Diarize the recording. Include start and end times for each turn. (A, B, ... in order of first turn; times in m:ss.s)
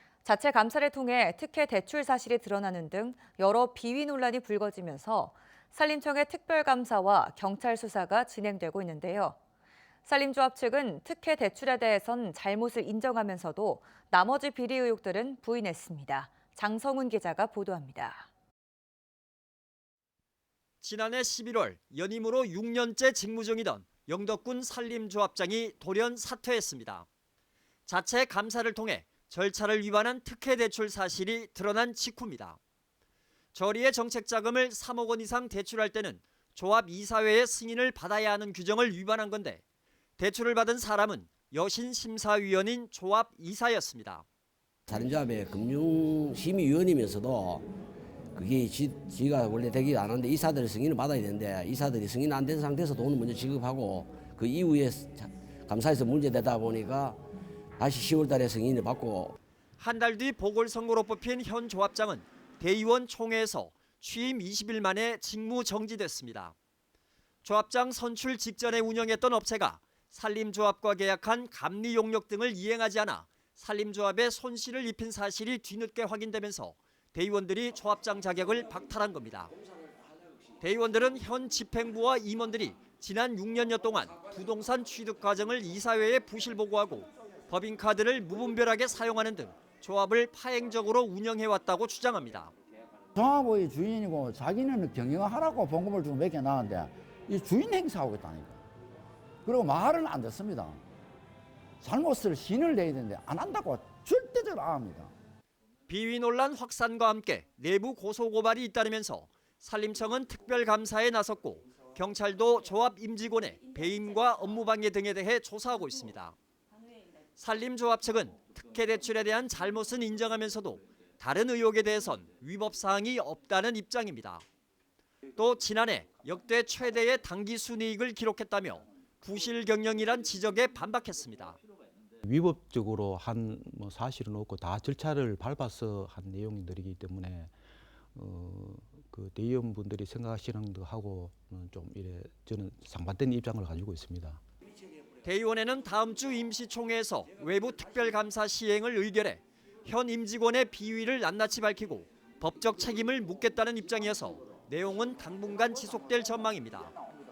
0:00.2-0:09.4 A
0:10.0-0:18.3 A
0:20.8-0:27.0 B
0:27.9-0:32.6 B
0:33.5-0:39.6 B
0:40.2-0:44.2 B
0:44.9-0:47.7 C
0:48.3-0:57.2 C
0:57.8-0:59.4 C
0:59.8-1:06.5 B
1:07.4-1:19.5 B
1:20.6-1:32.5 B
1:33.1-1:38.6 D
1:39.4-1:40.8 D
1:41.8-1:45.1 D
1:45.9-1:56.4 B
1:57.4-2:04.4 B
2:05.4-2:11.6 B
2:12.2-2:17.5 E
2:18.1-2:24.4 E
2:25.2-2:36.9 B